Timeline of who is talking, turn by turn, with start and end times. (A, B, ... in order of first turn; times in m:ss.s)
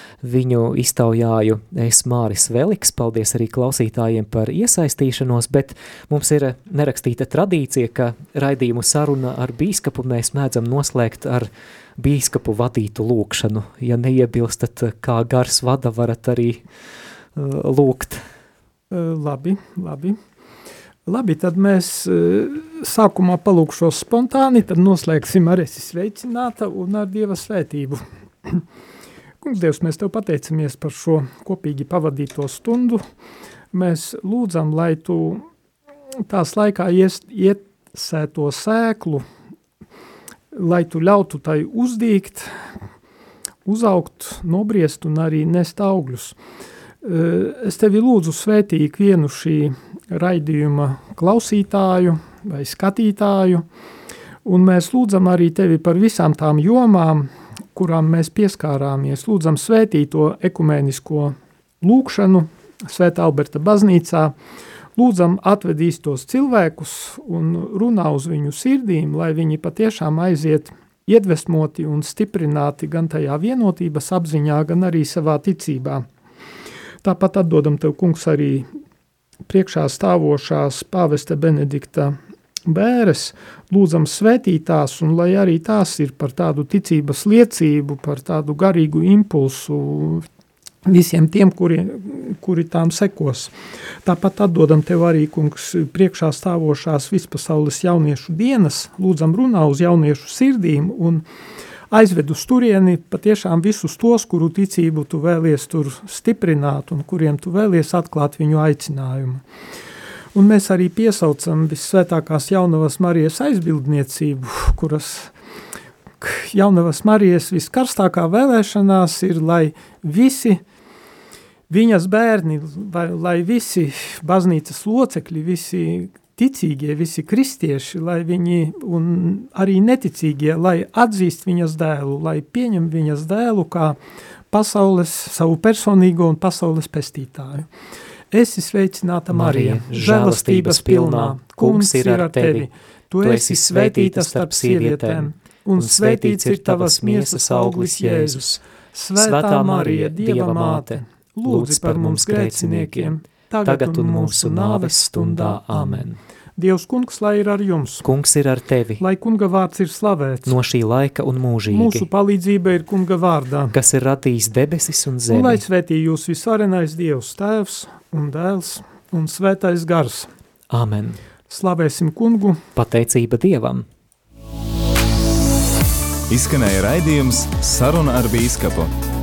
0:00.2-0:16.6 A
0:17.3-0:18.2 A
0:18.9-0:20.2 B
0:21.1-0:28.6 B
0:29.4-0:33.0 B
0:33.7-0:35.4 B
0:36.3-0:39.2 B
0:40.5-0:42.5 B
0:43.6-0:46.4 B
0:47.0-0:53.6 B
0:54.4-1:04.3 B
1:05.0-1:16.0 B
1:17.0-1:18.7 B
1:19.5-1:30.2 B
1:30.8-1:33.5 B
1:34.0-1:41.2 B
1:41.9-1:49.4 B
1:50.3-1:55.3 B
1:56.2-2:00.6 B
2:01.7-2:14.0 B
2:14.5-2:17.7 B
2:18.3-2:36.0 B
2:19.3-2:22.7 A
2:23.2-2:28.6 A
2:29.2-2:36.2 A
2:36.6-2:38.0 B
2:38.0-2:39.0 A
2:39.0-2:40.6 B
2:40.4-2:42.0 A
2:41.7-2:43.7 B
2:43.7-2:45.6 A
2:45.3-2:50.3 B
2:50.7-2:51.2 A
2:51.5-2:52.6 B
2:52.8-2:53.8 A
2:56.3-2:58.9 C